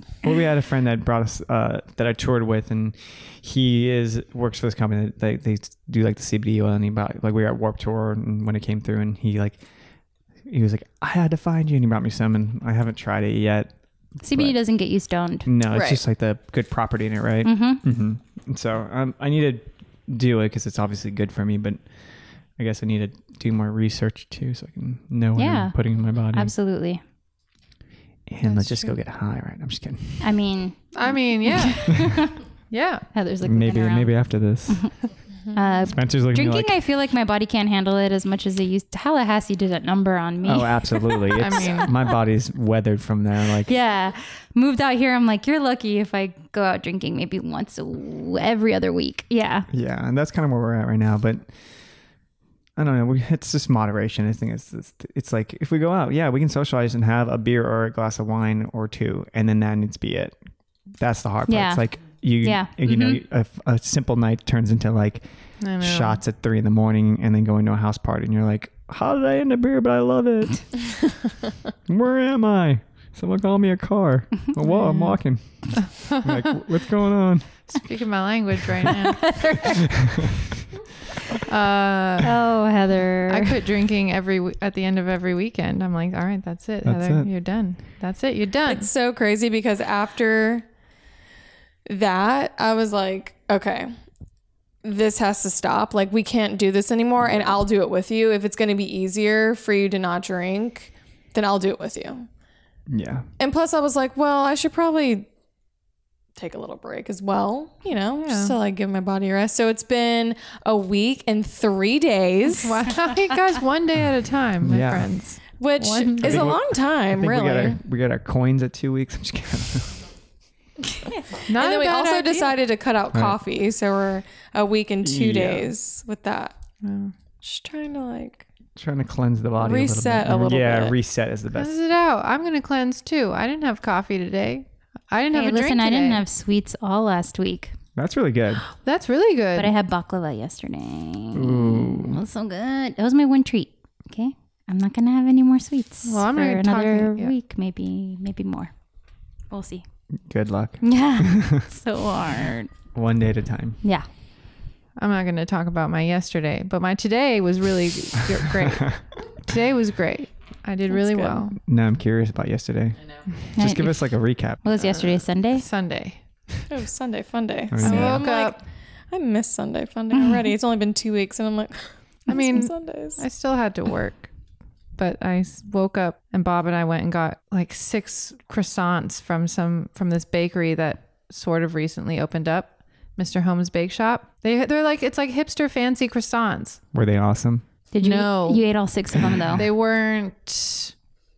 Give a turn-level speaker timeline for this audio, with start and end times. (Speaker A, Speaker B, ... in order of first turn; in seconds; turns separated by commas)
Speaker A: 0.2-9.6, Speaker A: 10.4-14.6, Speaker B: 14.2-15.5, Speaker A: 15.4-21.8, Speaker C: 15.7-16.0, Speaker B: 17.4-17.8, Speaker A: 22.6-26.5, Speaker B: 25.3-25.8, Speaker B: 26.3-27.0, Speaker A: 28.3-30.3, Speaker D: 28.4-28.9, Speaker B: 30.2-32.4, Speaker D: 30.9-33.0, Speaker B: 33.1-34.9, Speaker A: 33.4-35.1, Speaker B: 35.5-42.1, Speaker A: 35.9-36.7, Speaker A: 40.4-43.7, Speaker D: 41.4-41.9, Speaker B: 43.6-49.7, Speaker A: 49.7-51.5, Speaker A: 52.8-60.4, Speaker A: 61.0-71.2, Speaker B: 61.5-63.2, Speaker D: 65.6-66.2, Speaker A: 71.8-77.7, Speaker B: 74.8-75.1, Speaker D: 76.0-76.3, Speaker D: 77.7-79.8, Speaker A: 80.0-80.6, Speaker D: 81.4-82.3, Speaker B: 82.2-83.6, Speaker D: 83.3-88.9, Speaker A: 86.8-87.3, Speaker C: 88.7-90.7, Speaker C: 91.9-93.9, Speaker C: 94.8-102.3, Speaker A: 102.9-103.3, Speaker C: 103.4-105.3, Speaker C: 106.3-112.8, Speaker D: 108.2-108.5, Speaker D: 112.5-116.5, Speaker A: 114.6-115.1, Speaker C: 115.6-117.8, Speaker A: 116.2-120.0, Speaker D: 121.5-122.6, Speaker C: 121.5-126.5, Speaker A: 123.1-123.4, Speaker A: 125.0-125.7, Speaker D: 126.8-127.1, Speaker C: 127.4-128.4, Speaker A: 128.8-131.8, Speaker C: 129.6-130.9, Speaker D: 131.5-136.2, Speaker B: 135.3-137.7, Speaker A: 137.9-138.6, Speaker D: 138.8-139.8, Speaker B: 139.5-148.7, Speaker A: 141.3-142.2, Speaker D: 146.0-147.3, Speaker B: 149.5-149.8, Speaker A: 150.3-151.7, Speaker B: 150.8-152.7, Speaker A: 152.9-153.8, Speaker D: 155.0-161.6, Speaker A: 161.5-164.7, Speaker B: 163.5-165.7, Speaker D: 164.7-166.2, Speaker C: 166.7-173.2, Speaker A: 167.7-168.3, Speaker D: 167.8-168.6, Speaker D: 172.3-174.3, Speaker D: 175.0-186.8, Speaker A: 186.9-187.7, Speaker B: 187.9-189.6, Speaker D: 188.0-188.7, Speaker D: 189.5-190.9